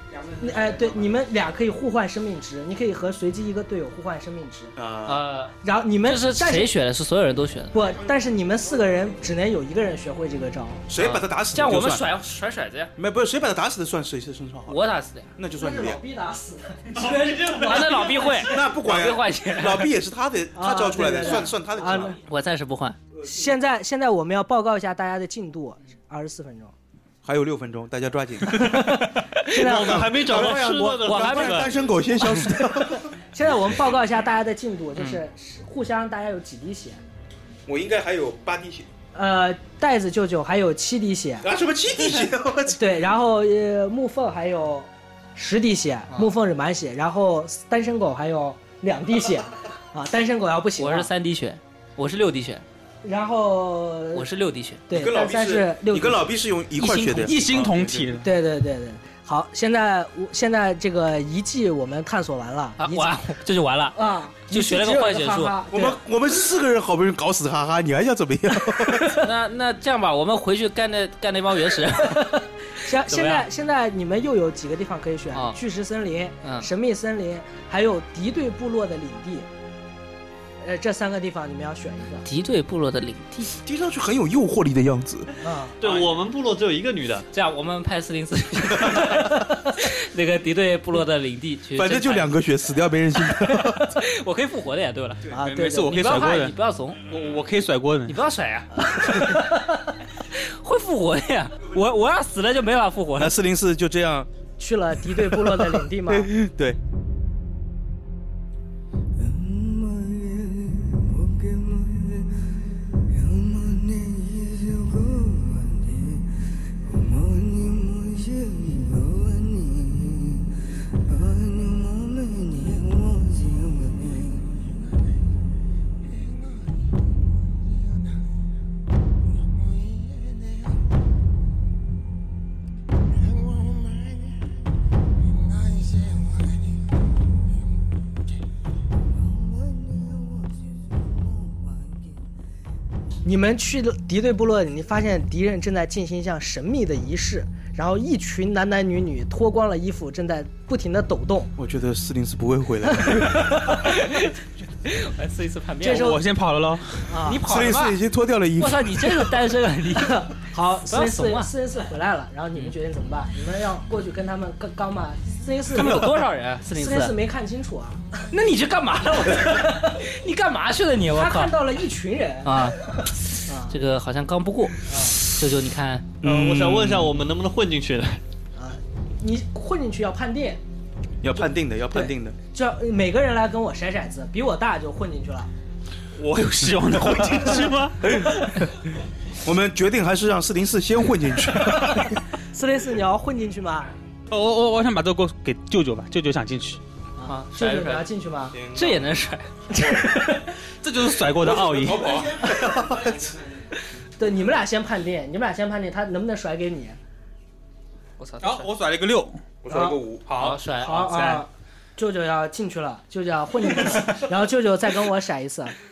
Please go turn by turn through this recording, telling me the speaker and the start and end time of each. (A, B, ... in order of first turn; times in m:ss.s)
0:00.3-0:04.7 A
0:04.8-0:05.2 B
0:05.1-0:07.8 C
0:05.6-0:06.7 A
0:07.7-0:10.8 A
0:10.9-0:12.1 B
0:11.0-0:12.9 C
0:13.0-0:14.8 B
0:14.7-0:15.3 C
0:15.4-0:16.0 B
0:15.6-0:18.7 A
0:17.4-0:19.9 C
0:18.4-0:22.2 B
0:20.6-0:22.2 A
0:21.2-0:23.0 C
0:23.2-0:23.5 B
0:23.2-0:26.7 A
0:27.2-0:28.9 B
0:28.5-0:30.1 A
0:28.6-0:29.6 C
0:29.6-0:31.7 D
0:29.7-0:33.1 B
0:31.0-0:31.7 C
0:32.2-0:37.0 A
0:37.7-0:38.9 B
0:39.1-0:41.5 A
0:41.4-0:42.8 B
0:42.7-0:51.1 A
0:50.8-0:52.6 C
0:53.0-0:54.3 A
0:54.1-0:54.8 C
0:54.9-0:56.3 A
0:54.9-0:58.2 B
0:56.8-0:57.3 C
0:56.8-0:58.3 E
0:58.2-1:03.2 A
1:02.8-1:04.0 C
1:04.0-1:06.0 A
1:04.5-1:05.6 C
1:05.7-1:09.2 B
1:09.2-1:13.5 C
1:12.0-1:19.5 A
1:16.4-1:16.7 C
1:20.6-1:22.2 A
1:22.2-1:23.6 C
1:23.6-1:25.4 B
1:25.4-1:25.8 A
1:25.8-1:27.2 D
1:27.3-1:32.3 C
1:28.8-1:29.3 B
1:31.8-1:34.0 B
1:33.4-1:35.3 C
1:35.3-1:35.9 A
1:35.3-1:36.5 E
1:35.9-1:37.0 C
1:37.1-1:38.2 E
1:38.1-1:39.6 C
1:40.3-1:43.4 C
1:43.2-1:44.3 B
1:44.6-1:46.3 A
1:45.2-1:46.8 B
2:23.2-2:31.5 A
2:31.6-2:33.9 B
2:33.5-2:36.2 C
2:35.8-2:36.2 A
2:35.9-2:37.2 E
2:37.1-2:37.4 A
2:37.2-2:38.0 C
2:37.4-2:39.3 B
2:38.6-2:40.2 C
2:40.0-2:48.2 A
2:40.9-2:41.5 C
2:45.7-2:47.2 C
2:48.3-2:51.6 C
2:51.1-2:52.7 A
2:52.4-2:52.8 C
2:53.3-2:56.1 C
2:53.5-2:53.8 A
2:54.9-2:55.2 A
2:56.2-2:57.1 B
2:56.2-2:58.2 D
2:58.6-3:00.6 A
3:01.2-3:02.4 B
3:02.0-3:05.5 A
3:06.2-3:08.6 E
3:08.0-3:08.4 B
3:09.4-3:12.2 B
3:12.5-3:13.9 A
3:14.3-3:16.8 E
3:17.2-3:18.6 A
3:17.3-3:18.1 C
3:18.5-3:19.0 B
3:18.7-3:20.3 C
3:19.9-3:20.5 A
3:20.8-3:22.3 E
3:21.4-3:23.3 B
3:24.2-3:27.0 A
3:28.2-3:28.7 C
3:28.4-3:29.5 E
3:29.6-3:30.3 B
3:29.7-3:30.0 A
3:30.3-3:31.4 E
3:30.4-3:31.4 C
3:30.8-3:35.8 A